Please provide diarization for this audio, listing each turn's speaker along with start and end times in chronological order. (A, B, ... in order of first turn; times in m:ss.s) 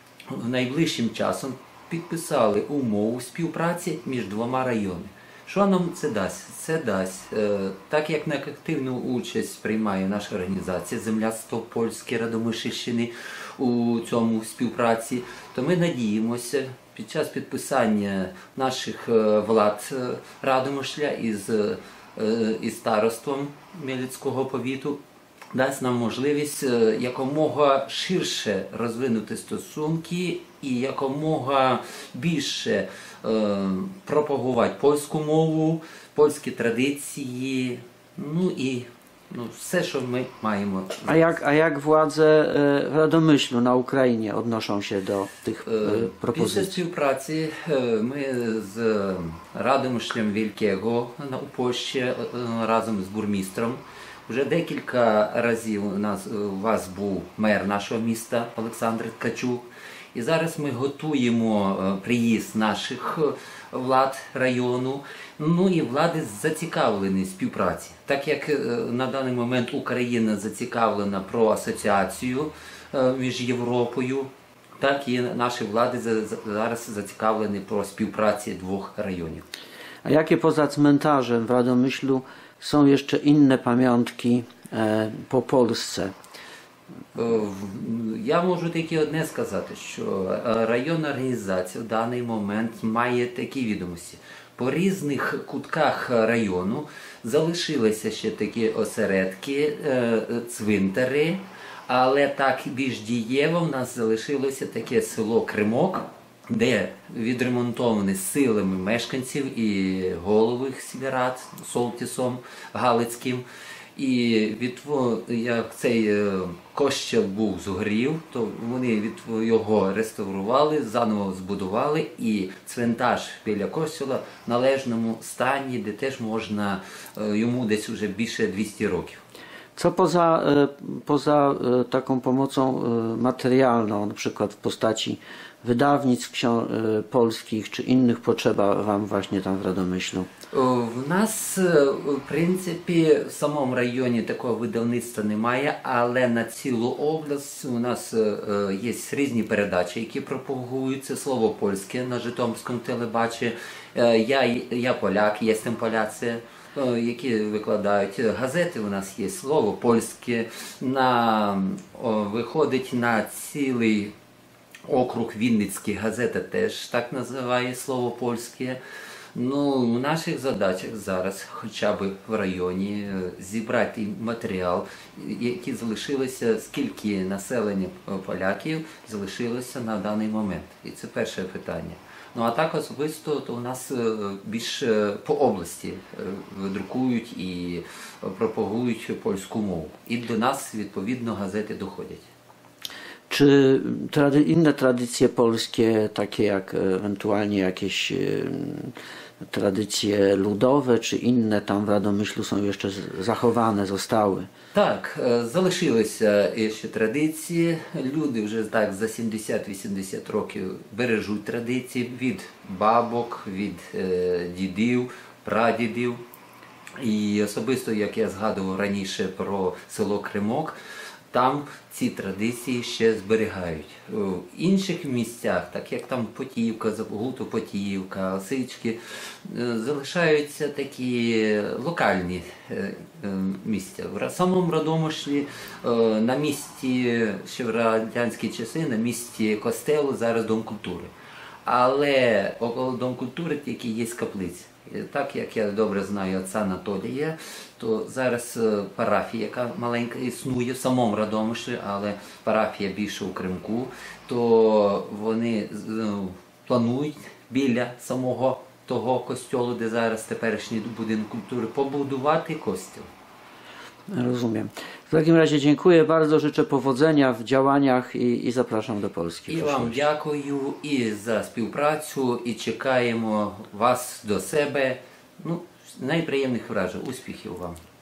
0:00.3-0:25.0 A
0:25.5-0:41.3 A
0:41.0-0:46.8 B
0:45.6-1:19.4 A
1:20.0-1:26.1 B
1:27.1-1:53.4 A
1:54.0-2:09.2 A
2:09.8-2:20.3 B
2:20.5-2:44.1 A
2:44.9-2:48.8 A
2:49.3-3:12.3 A
3:13.3-3:24.5 B
3:24.7-3:36.2 A
3:37.0-3:40.8 A
3:41.3-4:01.1 A
4:01.6-4:23.1 A
4:24.1-4:30.0 B
4:29.5-4:37.8 A